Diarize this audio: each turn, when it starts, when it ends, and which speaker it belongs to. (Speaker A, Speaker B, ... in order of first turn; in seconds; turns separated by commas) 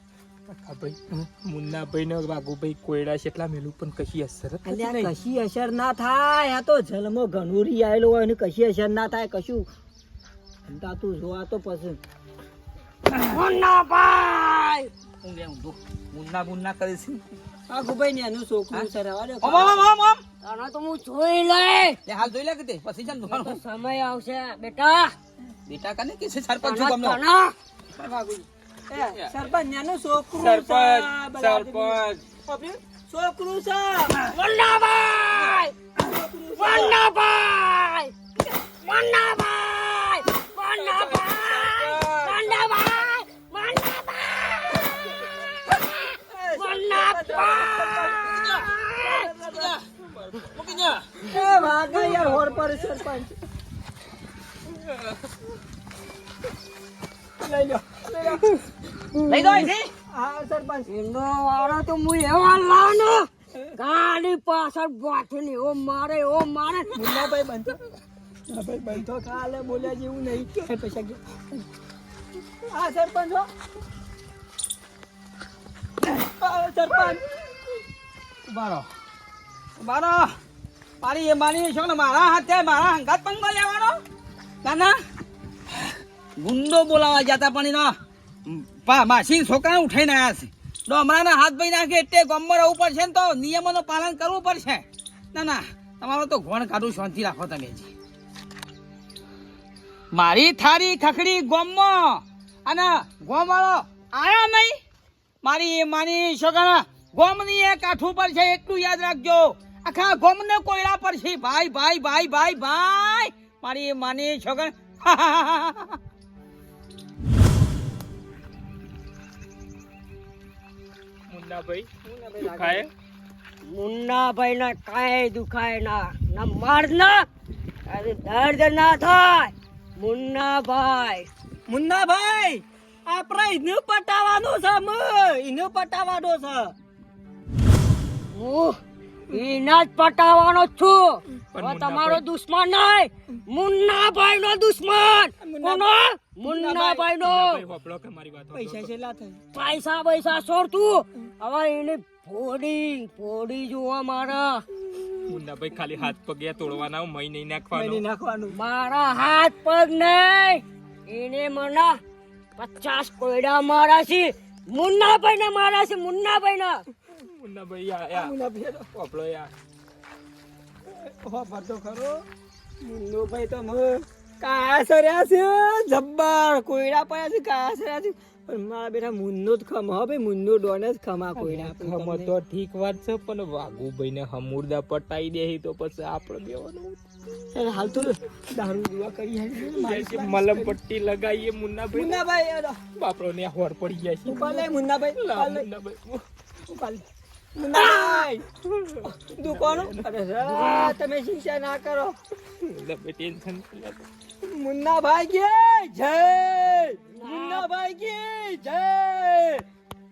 Speaker A: 0.5-5.1, Speaker B: 4.6-9.7, Speaker B: 10.7-12.0, Speaker C: 13.2-14.9, Speaker D: 15.2-17.2, Speaker B: 17.7-19.8, Speaker D: 19.4-20.2, Speaker C: 20.4-22.0, Speaker D: 22.1-23.6, Speaker C: 23.3-25.1, Speaker D: 25.7-27.2, Speaker C: 26.6-27.5, Speaker B: 27.9-34.2, Speaker A: 30.3-31.1, Speaker D: 31.3-32.2, Speaker C: 34.2-35.7, Speaker B: 36.0-37.0, Speaker C: 36.6-38.1, Speaker C: 38.8-49.3, Speaker A: 40.8-42.7, Speaker B: 46.2-48.5, Speaker D: 48.1-48.7, Speaker B: 49.0-49.7, Speaker D: 49.3-49.8, Speaker A: 50.1-50.6, Speaker D: 50.5-51.1, Speaker B: 51.2-53.4, Speaker A: 51.6-52.9, Speaker B: 57.4-58.5, Speaker D: 59.2-59.9, Speaker B: 60.1-60.9, Speaker C: 60.9-67.0, Speaker B: 66.9-67.8, Speaker B: 68.5-71.2, Speaker B: 72.7-73.5, Speaker B: 76.2-77.2, Speaker D: 78.5-78.9, Speaker D: 79.8-80.3, Speaker D: 81.0-84.0, Speaker D: 84.6-85.0, Speaker D: 86.4-87.9, Speaker D: 88.5-97.9, Speaker D: 100.1-104.8, Speaker D: 105.4-116.0, Speaker A: 121.3-122.9, Speaker B: 122.0-122.9, Speaker C: 123.6-127.2, Speaker C: 127.8-131.3, Speaker B: 131.7-136.7, Speaker C: 138.3-138.8, Speaker C: 139.3-147.6, Speaker A: 141.5-142.2, Speaker B: 145.4-145.9, Speaker B: 146.4-147.0, Speaker A: 147.0-148.9, Speaker B: 148.5-149.4, Speaker C: 149.5-154.6, Speaker A: 155.2-158.0, Speaker B: 157.7-158.5, Speaker C: 158.5-162.0, Speaker C: 162.6-166.8, Speaker A: 167.1-168.3, Speaker B: 168.1-168.9, Speaker A: 168.9-169.5, Speaker B: 170.9-172.2, Speaker B: 172.8-182.3, Speaker A: 181.4-187.0, Speaker B: 187.5-190.7, Speaker A: 189.6-192.2, Speaker B: 191.9-192.8, Speaker A: 192.9-196.2, Speaker B: 194.2-195.7, Speaker B: 196.7-198.5, Speaker C: 197.8-198.2, Speaker A: 198.7-200.1, Speaker B: 199.1-202.2, Speaker C: 200.4-200.9, Speaker A: 202.6-204.0, Speaker B: 204.4-209.6, Speaker C: 207.2-207.7